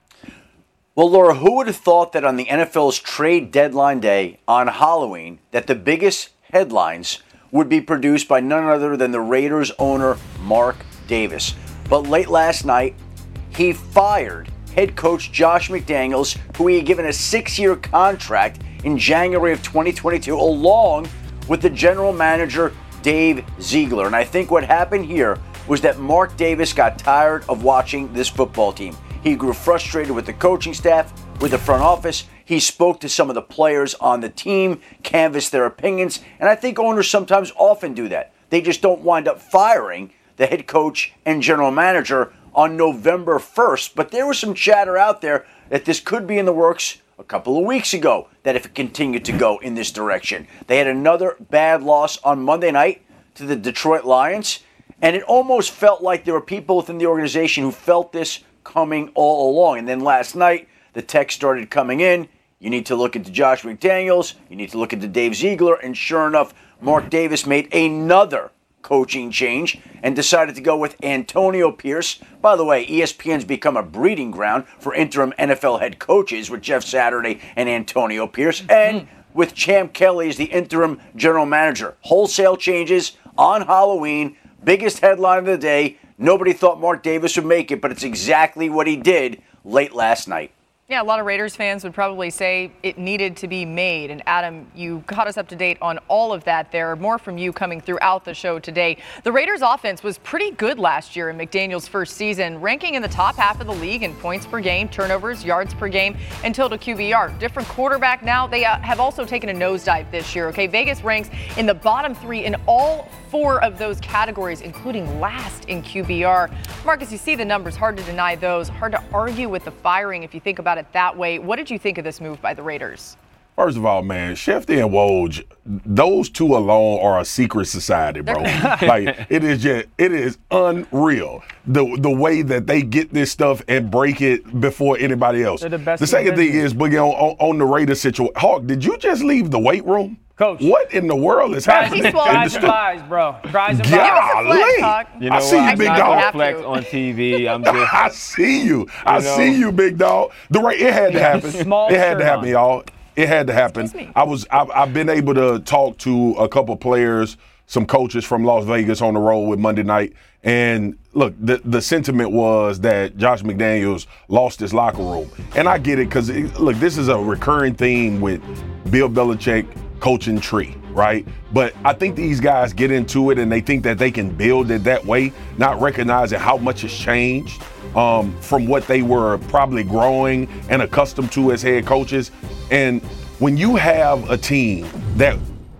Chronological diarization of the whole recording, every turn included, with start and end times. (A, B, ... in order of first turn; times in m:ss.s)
0:01.0-0:12.9 A
0:13.5-1:30.5 A
1:30.9-2:03.2 B
2:03.6-2:22.8 C
2:08.2-2:08.6 B
2:15.6-2:16.7 D
2:20.4-2:20.7 D
2:21.6-2:24.5 D
2:21.8-2:22.7 B
2:23.6-2:26.3 C
2:23.9-2:26.8 B
2:25.2-2:28.0 E
2:27.6-3:05.4 C
2:29.0-2:29.6 E
2:31.1-2:32.6 D
2:31.1-2:31.7 E
2:33.8-2:34.1 B